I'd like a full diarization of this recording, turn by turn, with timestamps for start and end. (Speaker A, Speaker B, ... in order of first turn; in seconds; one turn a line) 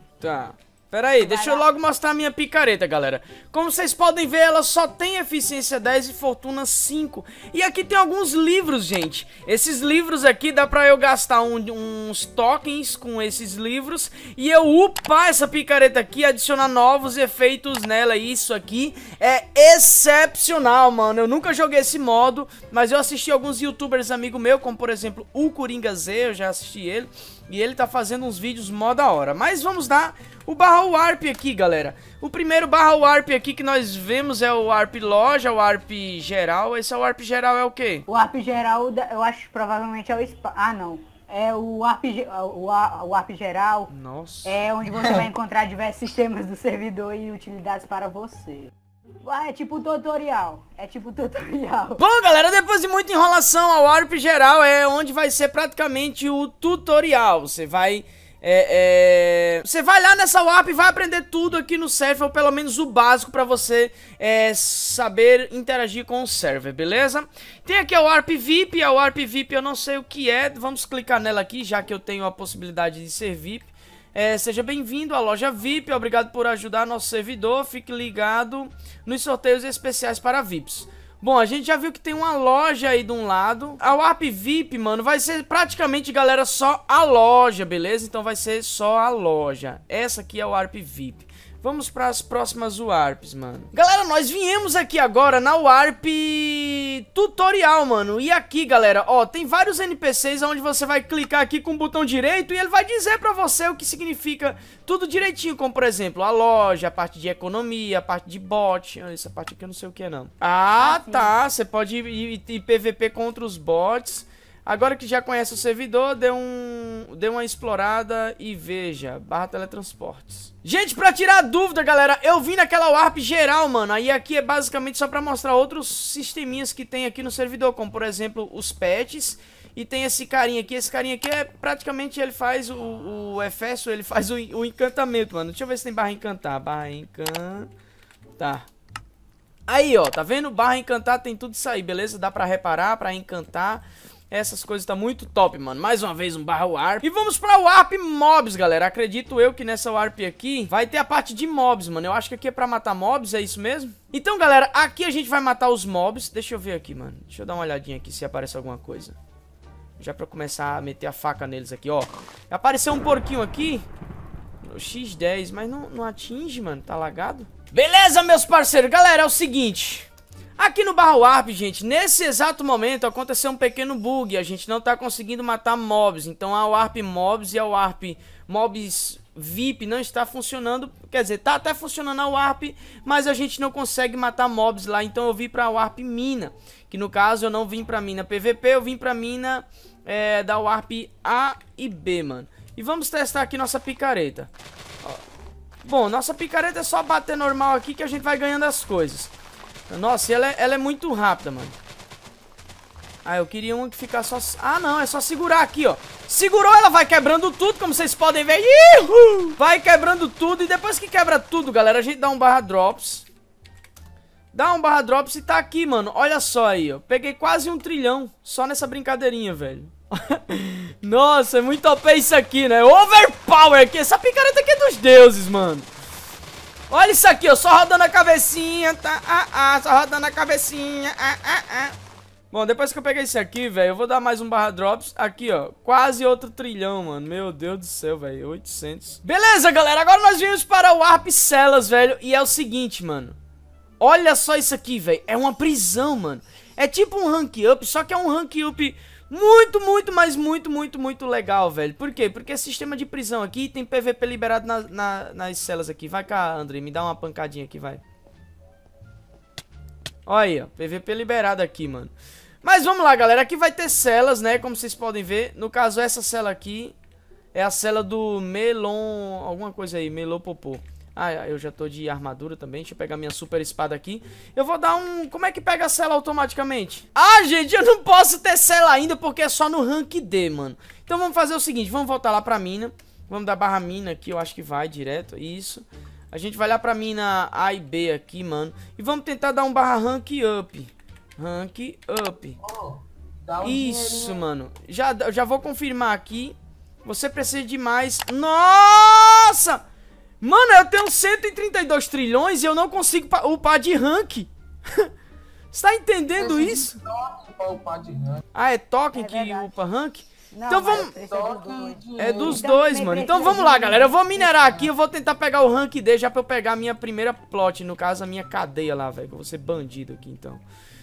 Speaker A: 0.2-38.0
Speaker B: 1.2-1.6
Speaker B: 38.1-43.9
Speaker A: 43.9-44.6
Speaker B: 44.4-48.7
Speaker B: 49.2-52.0
Speaker A: 52.0-137.7
Speaker B: 110.8-111.3
Speaker A: 138.4-138.6
Speaker A: 139.7-159.2
Speaker A: 160.0-163.8
Speaker A: 164.6-194.5
Speaker A: 195.8-199.3
Speaker A: 199.9-201.7
Speaker A: 203.2-213.2
Speaker A: 214.5-225.9
Speaker A: 226.9-231.9
Speaker A: 232.5-243.3
Speaker A: 244.0-258.0
Speaker A: 260.2-266.9
Speaker A: 267.5-292.6
Speaker C: 292.6-294.4
Speaker A: 293.6-299.8
Speaker A: 300.4-305.1
Speaker A: 305.7-307.0
Speaker C: 306.4-308.4
Speaker A: 308.5-311.1
Speaker B: 309.1-309.8
Speaker B: 310.5-314.1
Speaker C: 310.9-312.6
Speaker A: 312.2-320.6
Speaker C: 314.6-314.9